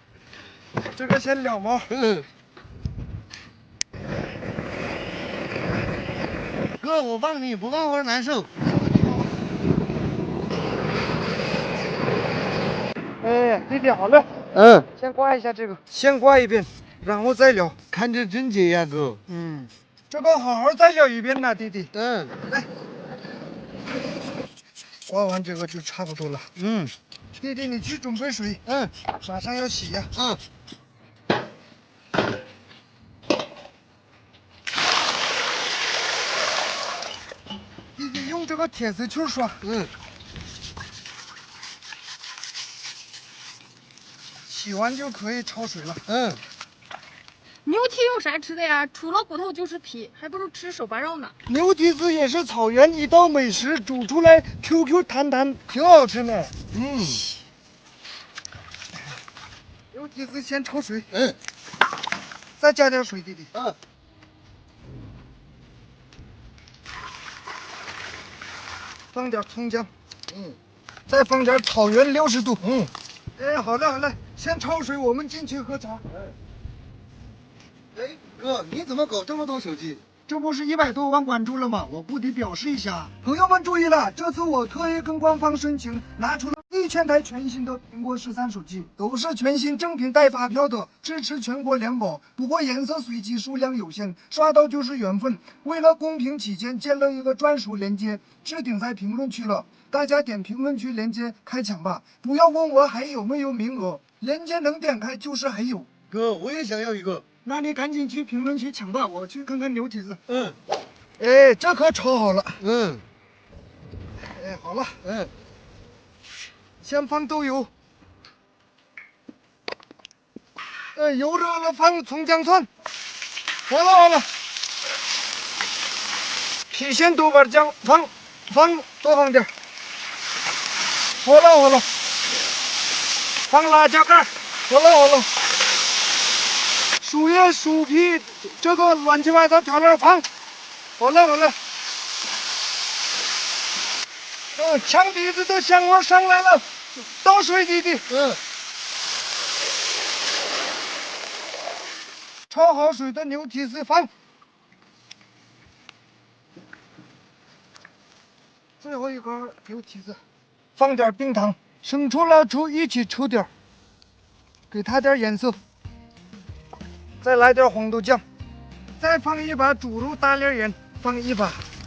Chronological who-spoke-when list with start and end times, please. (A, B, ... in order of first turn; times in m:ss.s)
0:00.9-0:02.0 A
0:06.8-0:08.5 B
0:13.2-0:14.3 A
0:15.0-0:17.8 A
0:17.9-0:19.4 B
0:20.1-0:21.9 A
0:25.1-0:26.5 A
0:27.4-0:30.1 A
0:38.0-0:39.7 A
0:44.5-0:46.0 A
0:47.6-0:51.3 C
0:51.4-0:56.5 A
0:59.9-1:01.2 A
1:02.6-1:03.5 A
1:09.1-1:09.9 A
1:11.1-1:12.8 A
1:13.4-1:16.0 A
1:18.0-1:20.0 B
1:20.2-1:45.9 A
1:46.1-1:47.2 B
1:47.4-1:50.2 A
1:51.2-1:52.6 A
1:52.7-1:53.0 B
1:54.3-1:55.0 A
1:56.8-1:57.7 A
2:00.9-2:02.7 A
2:03.7-2:04.3 A
2:06.7-2:09.5 A
2:11.2-2:11.8 A
2:13.5-2:15.3 A
2:17.0-2:20.2 A
2:21.0-2:21.6 A
2:24.6-2:28.1 A
2:32.5-2:34.1 A
2:38.8-2:40.2 A
2:40.8-2:43.5 A
2:44.7-2:45.6 A
2:47.2-2:48.2 A
2:49.0-2:51.6 A